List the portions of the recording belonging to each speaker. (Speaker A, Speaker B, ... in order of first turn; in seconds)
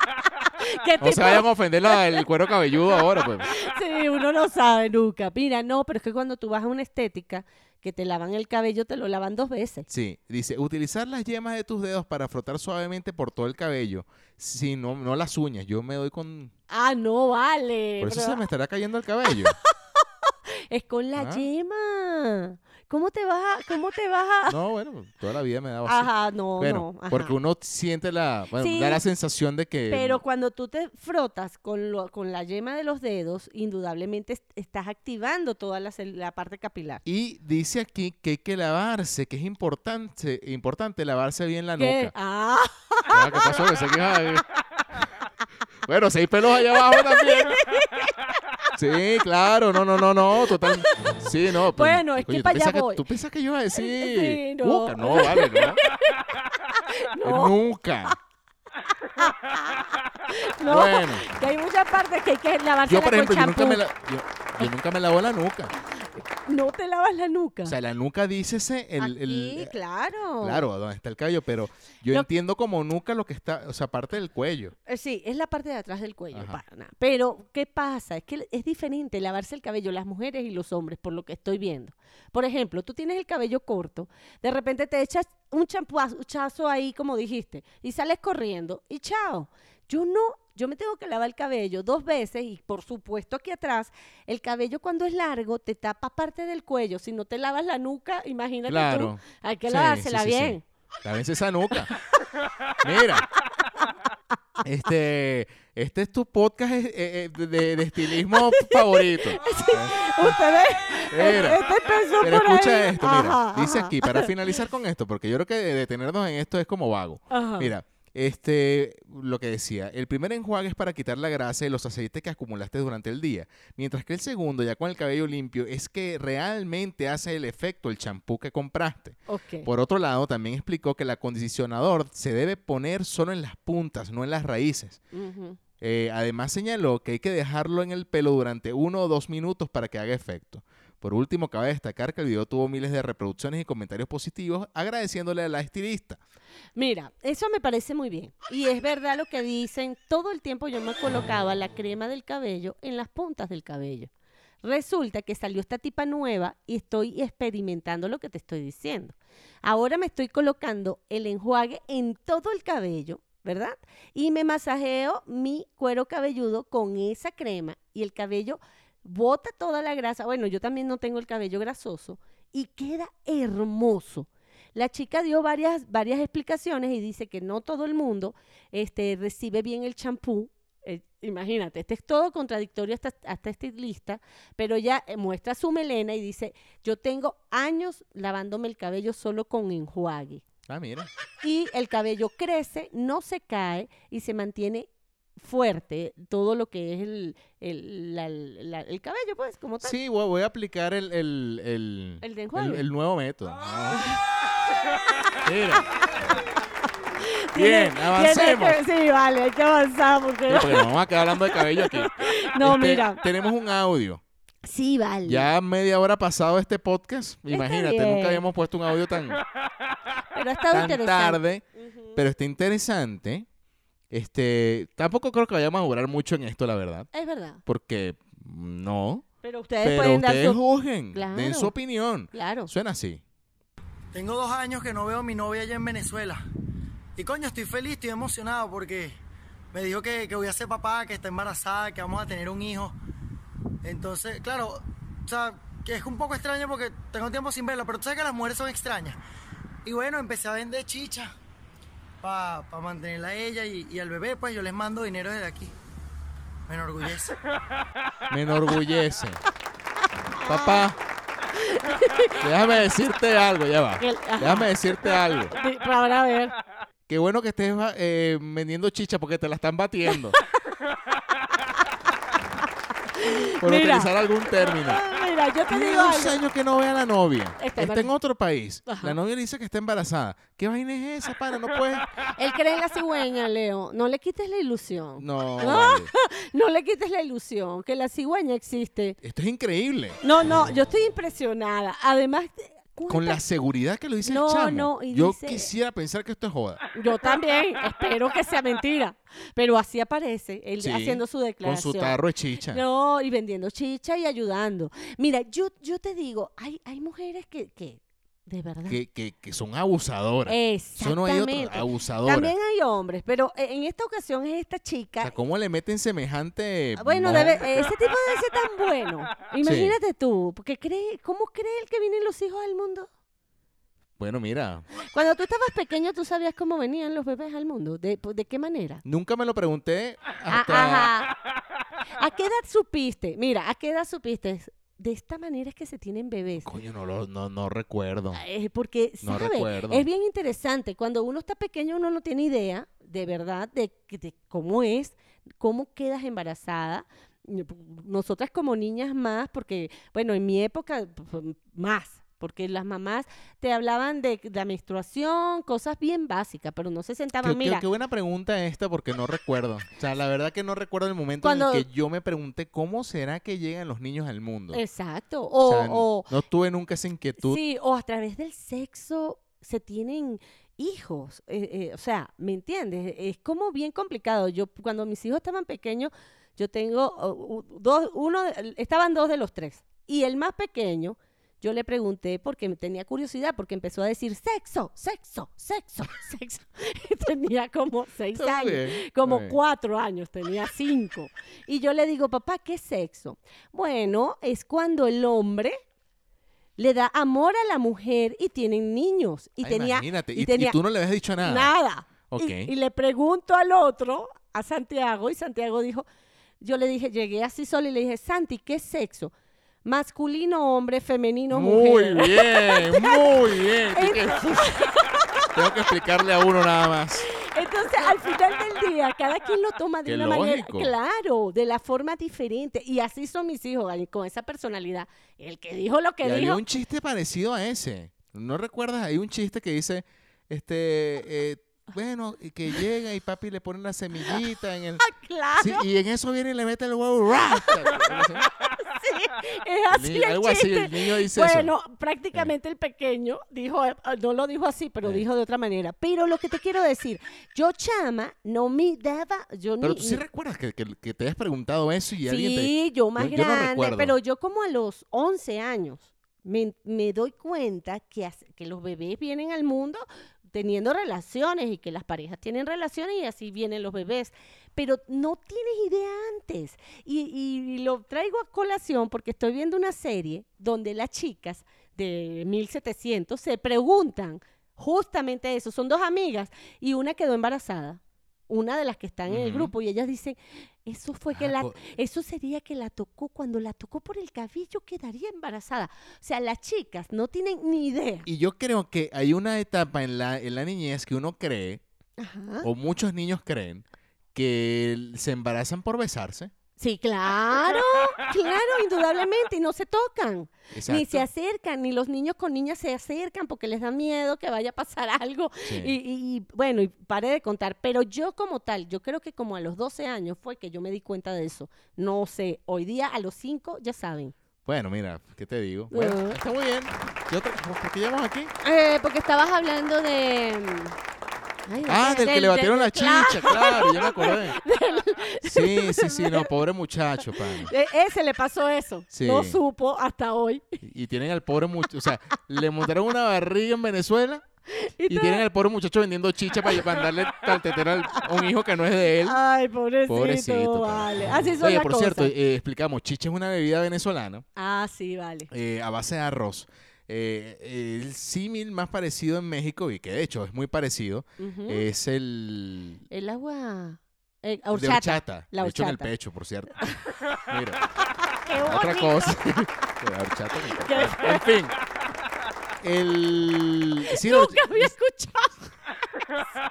Speaker A: 0.6-2.1, 3.5-9.9, 16.7-18.4, 19.3-24.6, 25.8-27.3, 28.6-29.0, 29.9-37.0, 41.8-43.6, 46.7-48.6, 50.4-50.9, 51.7-53.0, 53.8-57.6, 59.1-63.8, 66.5-67.7, 69.0-70.6, 74.9-100.6, 108.3-114.3, 117.3-117.7, 129.3-129.7, 135.1-135.6, 146.8-154.1, 154.6-190.4, 191.4-199.9, 202.2-202.8, 207.2-210.9, 211.5-213.2, 214.6-215.5, 217.5-218.4, 220.3-222.2, 227.1-227.6, 229.4-230.6, 231.1-231.7, 232.3-232.7, 260.3-260.8, 261.5-262.5, 264.0-266.5, 273.1-274.1, 274.6-276.4, 277.6-278.1, 278.9-279.1, 282.4-289.2, 290.2-293.4, 294.2-295.7, 296.9-302.2, 302.7-309.0, 310.4-315.3, 316.9-323.1, 325.1-329.0, 330.5-331.3, 332.2-336.7, 338.3-357.8, 361.4-361.9, 364.7-366.3, 367.4-395.8, 396.8-400.8, 401.4-406.1, 406.6-409.3, 409.8-415.5, 417.3-426.6, 435.0-435.9, 437.6-438.1, 438.6-450.2, 452.2-488.3, 492.2-492.7, 496.8-514.3, 515.9-516.4, 518.6-521.0, 521.7-526.5, 527.3-530.8, 534.7-535.4, 536.6-537.0, 538.1-538.4, 539.2-542.3, 544.5-545.5, 551.4-551.9, 553.1-556.1, 556.8-557.3, 558.1-559.4, 560.7-561.5, 564.1-565.7
Speaker B: 1.0-3.5, 9.9-16.5, 18.0-19.6, 21.1-21.4, 24.5-30.2, 37.0-42.1, 43.1-44.4, 45.9-47.6, 48.8-55.8, 57.2-58.1, 60.6-61.3, 62.9-65.7, 67.6-69.7, 70.4-74.7, 76.3-76.6, 98.7-101.9, 102.8-103.3, 104.6-110.3, 111.1-111.6, 112.2-135.0, 135.8-146.2, 190.7-191.1, 199.8-204.0, 205.4-205.8, 207.5-208.8, 210.5-214.2, 215.2-219.4, 220.7-221.6, 222.2-223.4, 224.1-227.1, 227.7-229.2, 229.8-233.2, 258.3-259.4, 260.4-261.0, 262.4-265.5, 267.1-270.4, 273.6-275.0, 275.7-282.1, 285.2-286.1, 289.2-290.2, 293.1-296.8, 300.8-302.8, 308.9-312.5, 315.2-317.9, 319.6-320.0, 324.2-324.9, 329.0-331.1, 336.6-338.4, 339.2-340.1, 357.4-364.8, 365.6-367.6, 388.3-389.6, 399.6-401.7, 402.3-402.7, 411.5-414.7, 415.5-417.3, 420.0-420.9, 426.2-435.0, 435.6-438.5, 439.9-441.7, 449.8-454.1, 479.3-479.7, 481.3-481.8, 488.2-491.8, 492.6-496.5, 500.7-501.2, 505.6-505.9, 514.6-518.5, 521.9-524.6, 525.4-527.7, 529.1-529.6, 530.8-534.4, 535.1-539.4, 540.1-544.4, 545.5-553.0, 554.7-556.9, 557.5-557.8, 558.6-561.7, 562.8-564.9
Speaker C: 234.1-236.4, 237.2-239.2, 239.7-242.9, 243.8-249.2, 249.8-251.3, 252.2-255.7, 256.7-257.4